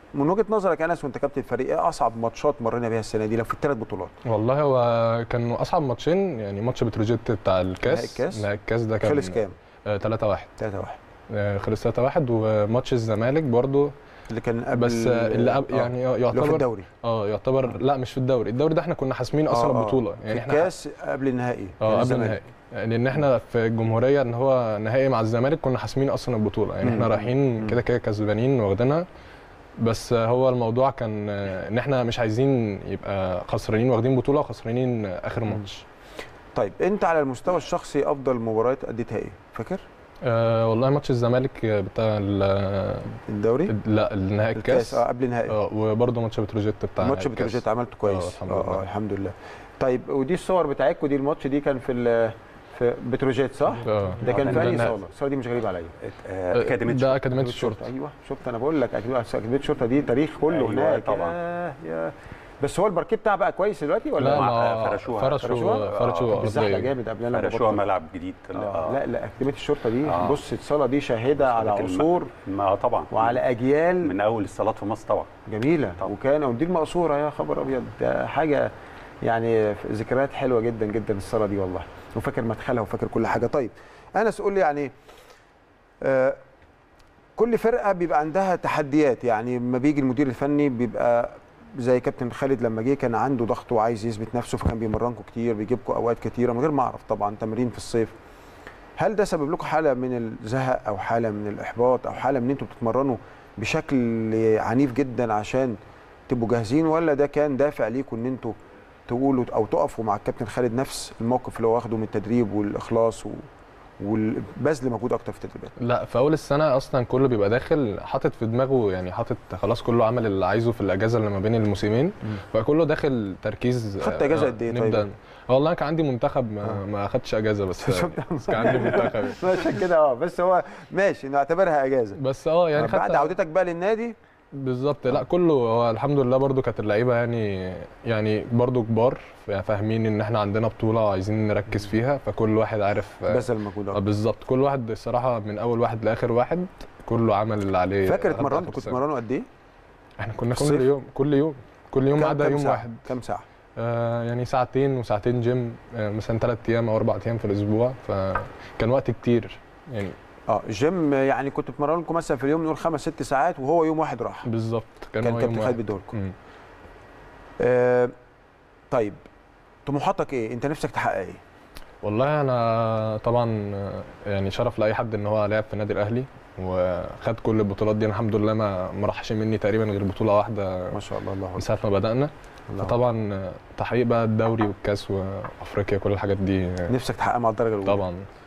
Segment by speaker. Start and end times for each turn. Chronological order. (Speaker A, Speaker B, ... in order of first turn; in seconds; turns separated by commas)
Speaker A: 0.1-4.1, Speaker B: 4.2-9.4, Speaker A: 7.8-8.4, Speaker A: 9.0-9.5, Speaker B: 9.9-10.5, Speaker A: 10.6-10.9, Speaker B: 11.3-13.9, Speaker A: 14.3-16.9, Speaker B: 14.8-20.7, Speaker A: 19.5-22.4, Speaker B: 21.8-29.0, Speaker A: 26.8-27.8, Speaker B: 29.8-35.8, Speaker A: 36.5-39.8, Speaker B: 40.2-43.2, Speaker A: 43.2-43.7, Speaker B: 43.7-48.9, Speaker A: 44.5-45.5, Speaker A: 47.0-55.9, Speaker B: 53.8-55.0, Speaker C: 56.0-57.2, Speaker B: 56.5-57.9, Speaker A: 57.2-64.5, Speaker C: 60.4-61.4, Speaker B: 64.2-66.9, Speaker C: 64.2-66.4, Speaker A: 65.4-67.8, Speaker C: 67.3-69.0, Speaker A: 68.5-72.3, Speaker C: 70.0-70.4, Speaker C: 71.3-73.4, Speaker A: 73.1-74.1, Speaker C: 74.0-75.3, Speaker A: 75.5-78.7, Speaker A: 79.2-84.9, Speaker A: 86.0-86.4, Speaker A: 87.4-98.1, Speaker A: 99.0-105.8, Speaker A: 106.3-108.5, Speaker A: 109.1-113.5, Speaker A: 114.0-115.7, Speaker B: 115.8-129.4, Speaker A: 124.0-125.0, Speaker A: 127.8-132.2, Speaker B: 132.2-133.3, Speaker A: 132.7-134.2, Speaker B: 134.6-149.0, Speaker A: 143.3-144.0, Speaker A: 148.1-149.4, Speaker B: 150.2-153.0, Speaker A: 150.5-150.9, Speaker A: 152.1-153.4, Speaker B: 153.8-160.2, Speaker A: 160.5-164.5, Speaker B: 164.4-166.3, Speaker A: 165.2-166.2, Speaker A: 167.6-168.1, Speaker A: 168.9-169.2, Speaker A: 169.8-171.4, Speaker B: 172.0-181.0, Speaker A: 180.9-181.6, Speaker B: 181.6-186.9, Speaker A: 182.7-182.9, Speaker A: 186.9-188.0, Speaker B: 187.8-188.2